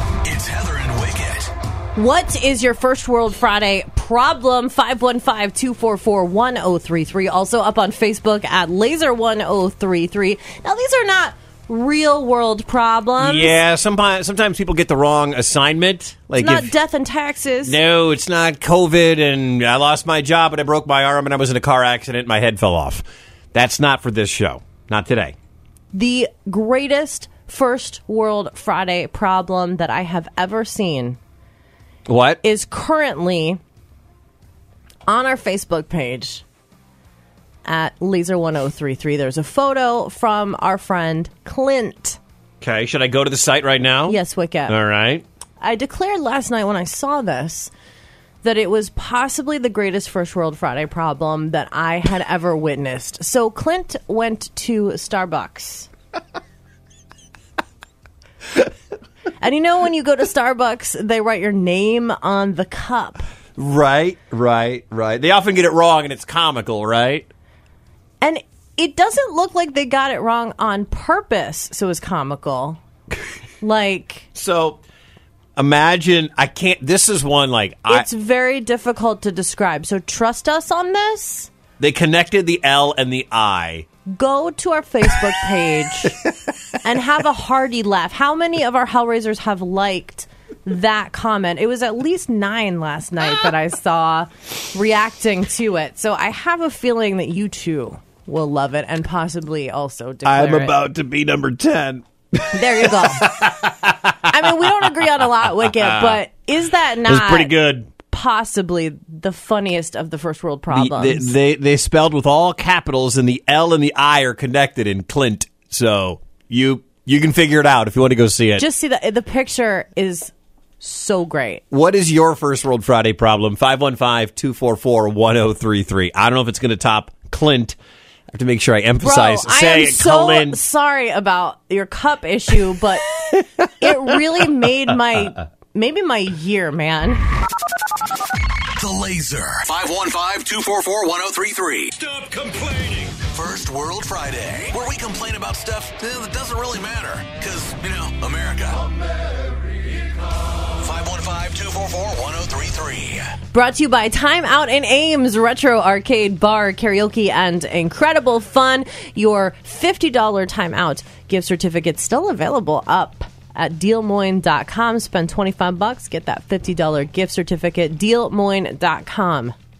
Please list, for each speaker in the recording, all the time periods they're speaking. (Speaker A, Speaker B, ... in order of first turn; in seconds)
Speaker A: 0.2-1.5, 138.8-148.9, 150.8-153.3
Speaker B: 1.9-13.6, 16.4-17.8, 25.9-31.2, 32.4-33.6, 35.1-36.4, 37.6-42.2, 44.1-44.8, 45.6-47.7, 48.4-55.9, 59.4-63.2, 68.2-72.8, 73.6-74.3, 77.9-81.5, 84.1-86.2, 86.8-100.8, 102.5-103.4, 104.2-111.3, 118.6-121.6, 129.0-133.2, 133.8-137.2, 153.5-169.6
Speaker C: 13.2-16.7, 17.6-25.4, 32.1-32.4, 42.6-45.2, 63.6-67.3, 74.3-74.8, 75.6-78.1, 81.8-83.9, 100.2-105.1, 105.6-106.2, 107.0-107.9, 110.7-118.7, 121.7-127.8, 128.3-130.6